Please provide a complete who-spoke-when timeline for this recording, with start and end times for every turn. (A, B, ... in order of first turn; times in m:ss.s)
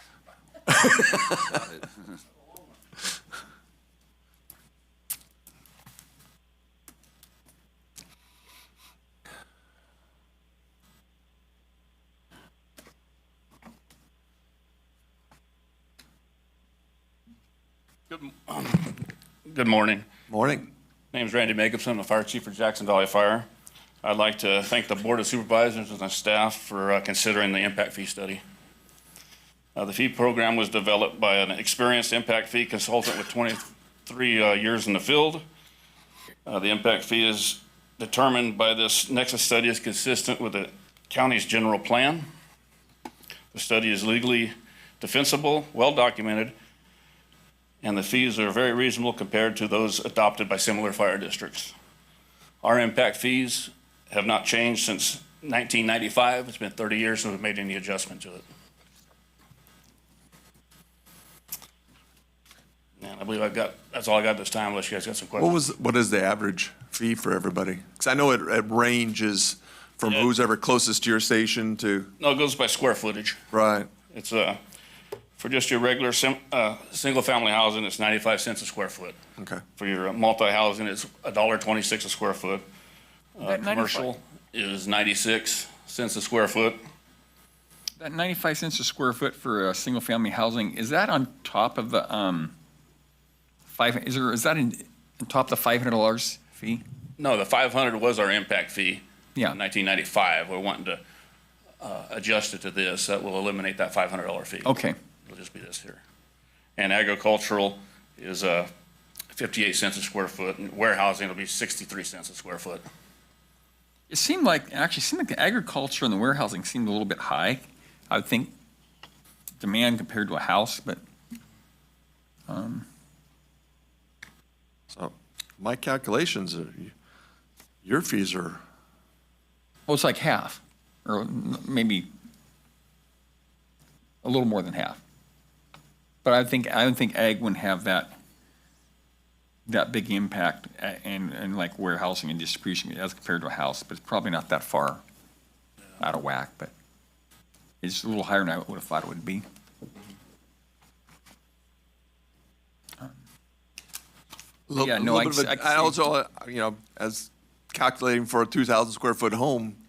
0:00.7-0:01.6 A
0:18.1-0:20.0 B
0:20.3-0:20.7 A
0:21.1-0:23.4 B
0:24.0-0:28.4 B
0:29.7-0:35.4 B
0:36.4-0:42.3 B
0:43.5-0:46.5 B
0:47.8-0:51.7 B
0:52.6-0:58.4 B
1:03.0-1:05.6 B
1:05.4-1:12.1 A
1:12.2-1:13.4 B
1:13.5-1:13.9 A
1:14.1-1:14.6 B
1:15.4-1:19.2 B
1:19.8-1:22.6 B
1:23.4-1:26.8 B
1:23.4-1:24.1 C
1:28.0-1:32.5 C
1:33.7-1:36.8 C
1:37.2-1:41.0 B
1:41.8-1:46.0 B
1:44.6-1:45.0 C
1:46.8-1:48.7 B
1:49.3-1:52.8 B
1:54.1-1:58.5 C
1:59.6-2:01.0 C
2:02.5-2:02.8 C
2:04.9-2:06.9 A
2:07.8-2:08.6 A
2:09.9-2:12.1 C
2:14.2-2:15.0 C
2:16.2-2:18.1 C
2:19.7-2:25.0 C
2:26.0-2:26.7 C
2:27.8-2:29.4 C
2:34.7-2:39.8 A
2:34.8-2:36.1 C